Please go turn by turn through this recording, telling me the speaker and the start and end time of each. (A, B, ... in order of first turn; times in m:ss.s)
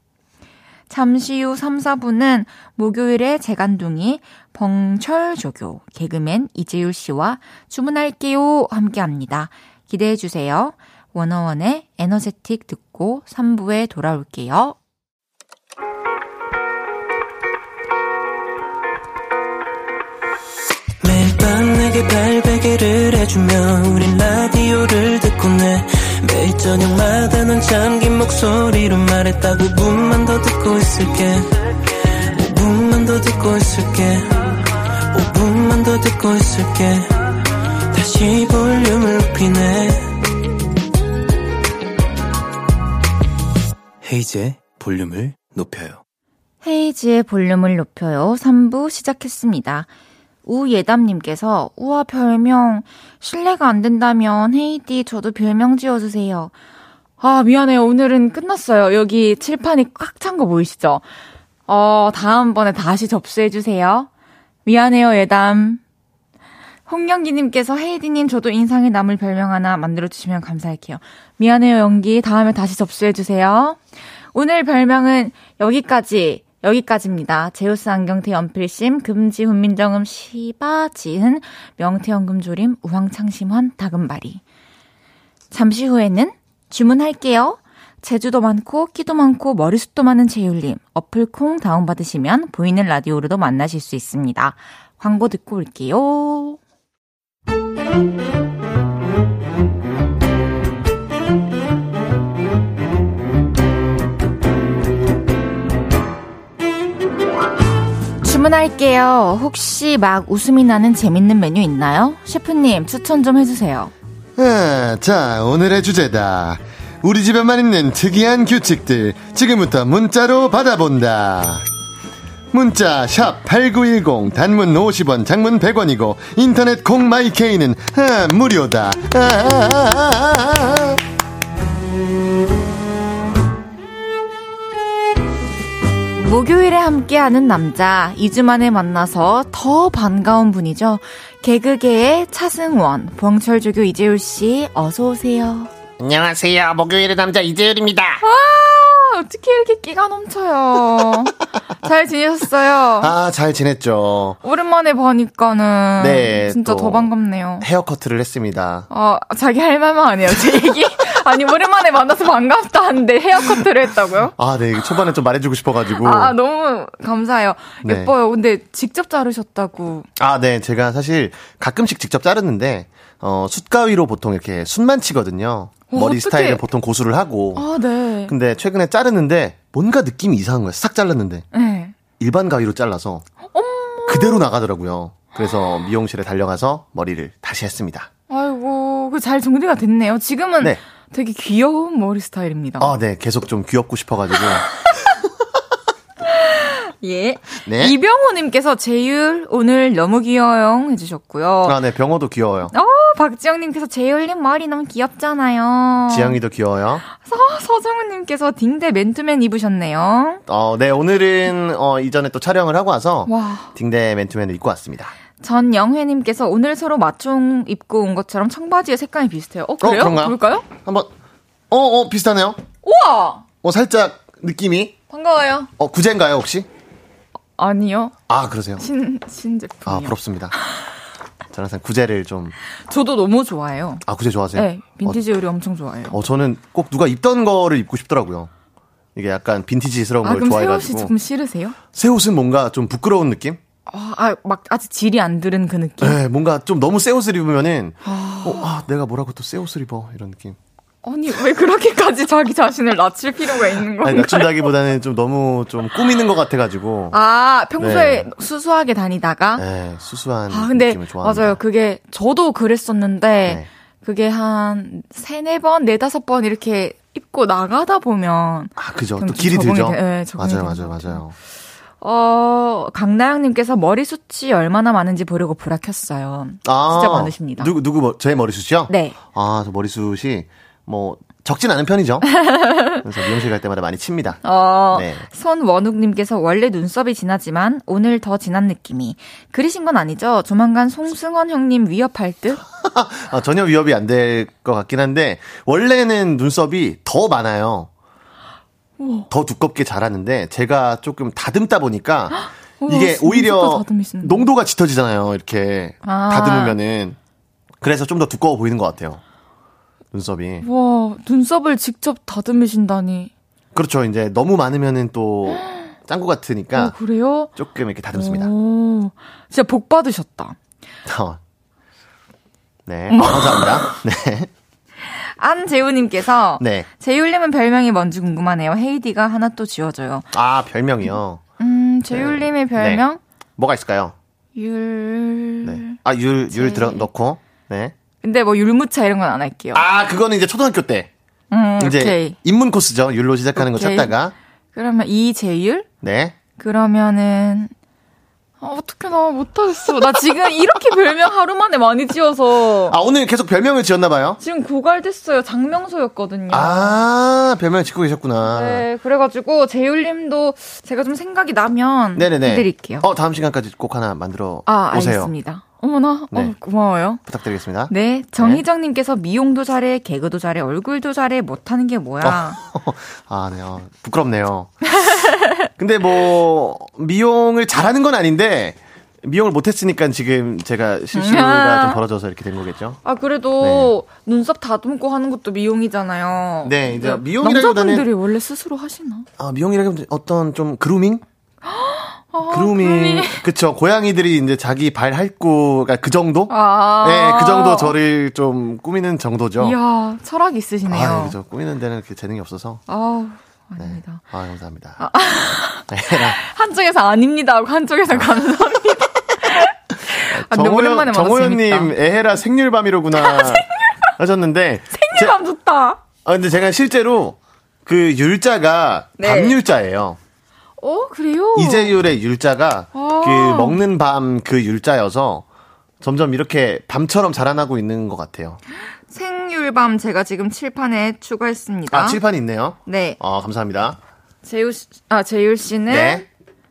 0:00.9-0:14.8 A
0:21.0-0:31.5 B
0:32.3-0:34.6 B
0:35.1-0:37.1 B
0:37.9-0:40.2 B
0:44.0-0:46.0 C
0:46.6-0:49.9 A
0:50.4-0:56.5 A
0:57.2-1:01.0 A
1:01.7-1:04.1 A
1:04.6-1:05.8 A
1:06.9-1:13.8 A
1:14.3-1:24.4 A
1:25.5-1:36.6 A
1:48.2-1:53.9 A
1:54.4-2:01.6 D
2:02.5-2:11.0 D
2:16.2-2:25.7 A
2:26.0-2:28.2 E
2:28.2-2:33.1 A
2:33.0-2:34.4 D
2:34.4-2:37.7 A
2:36.0-2:37.1 D
2:37.6-2:38.9 D
2:38.9-2:44.3 A
2:44.4-2:46.3 D
2:46.0-2:50.1 A
2:47.8-2:48.1 D
2:50.2-2:57.6 D
2:55.9-2:56.6 A
2:57.6-2:58.3 A
2:58.3-3:01.4 D
3:01.5-3:01.9 A
3:02.2-3:03.2 D
3:03.5-3:04.4 A
3:04.1-3:08.1 D
3:05.4-3:05.9 A
3:08.3-3:12.9 A
3:12.8-3:14.9 D
3:16.3-3:21.8 A
3:17.6-3:17.9 D
3:21.6-3:22.7 D
3:22.7-3:26.4 A
3:26.1-3:27.0 D
3:27.1-3:30.4 A
3:30.5-3:35.1 D
3:33.3-3:33.7 A
3:35.4-3:40.7 A
3:39.8-3:41.1 D
3:41.7-3:42.6 D
3:42.8-3:43.4 A
3:43.6-3:45.0 D
3:45.1-3:45.7 A
3:45.8-3:46.7 D
3:47.6-3:48.1 A
3:48.3-3:48.8 D
3:48.8-3:50.1 A
3:49.9-3:50.5 D
3:51.5-3:52.5 D
3:52.9-3:56.2 A
3:54.0-3:55.2 D
3:56.1-3:58.5 D
3:59.2-4:01.1 D
4:00.2-4:01.8 A
4:01.9-4:03.6 D
4:03.9-4:06.2 A
4:06.0-4:10.6 D
4:08.0-4:08.7 A
4:11.0-4:14.6 A
4:14.0-4:17.2 D
4:17.1-4:19.6 A
4:17.8-4:18.2 D
4:19.6-4:21.6 D
4:20.5-4:31.2 A
4:28.8-4:31.3 D
4:32.0-4:37.7 A
4:36.6-4:42.4 D
4:38.9-4:39.2 A
4:42.4-4:43.0 A
4:43.0-4:44.4 D
4:44.4-4:52.6 A
4:44.9-4:45.2 D
4:52.8-4:57.9 D
4:59.0-4:59.3 A
4:59.3-5:07.2 D
5:02.3-5:04.5 A
5:06.0-5:06.8 A
5:07.8-5:09.2 D
5:10.1-5:10.6 D
5:10.6-5:13.3 A
5:13.7-5:16.9 D
5:16.7-5:17.5 A
5:17.6-5:18.5 D
5:18.1-5:20.6 A
5:21.0-5:21.4 D
5:22.9-5:24.5 D
5:23.1-5:23.9 A
5:25.0-5:30.3 A
5:26.6-5:26.9 D
5:30.3-5:31.4 D
5:31.0-5:33.2 A
5:32.1-5:33.0 D
5:33.6-5:34.1 D
5:34.5-5:35.9 A
5:35.6-5:37.9 D
5:36.5-5:37.0 A
5:38.2-5:39.8 A
5:39.7-5:41.1 D
5:41.5-5:42.4 A
5:41.8-5:44.3 D
5:43.6-5:44.1 A
5:44.7-5:45.9 A
5:46.0-5:46.4 D
5:46.6-5:47.7 A
5:48.6-5:53.0 A
5:52.8-5:54.4 D
5:54.4-5:57.0 A
5:56.5-5:58.8 D
5:58.4-6:03.0 A
6:02.2-6:05.3 D
6:04.6-6:07.2 A
6:07.2-6:08.6 D
6:07.9-6:12.6 A
6:12.2-6:15.0 D
6:15.0-6:15.3 A
6:15.8-6:23.0 D
6:21.1-6:22.0 A
6:23.0-6:29.3 A
6:23.6-6:23.9 D
6:26.6-6:28.1 D
6:29.4-6:31.2 D
6:31.7-6:33.4 A
6:32.5-6:39.8 D
6:36.5-6:37.9 A
6:39.6-6:41.4 A
6:40.9-6:42.8 D
6:42.9-6:44.2 A
6:43.8-6:45.0 D
6:45.0-6:51.9 A
6:45.9-6:46.4 D
6:50.3-6:53.6 D
6:53.2-6:54.1 A
6:54.2-6:55.4 D
6:54.9-6:56.0 A
6:56.2-7:00.2 D
6:59.2-6:59.6 A
7:00.8-7:01.9 A
7:01.5-7:05.4 D
7:02.9-7:03.8 A
7:06.0-7:08.6 D
7:09.1-7:12.2 A
7:11.9-7:14.0 D
7:12.8-7:13.2 A
7:14.4-7:16.2 A
7:15.9-7:16.2 D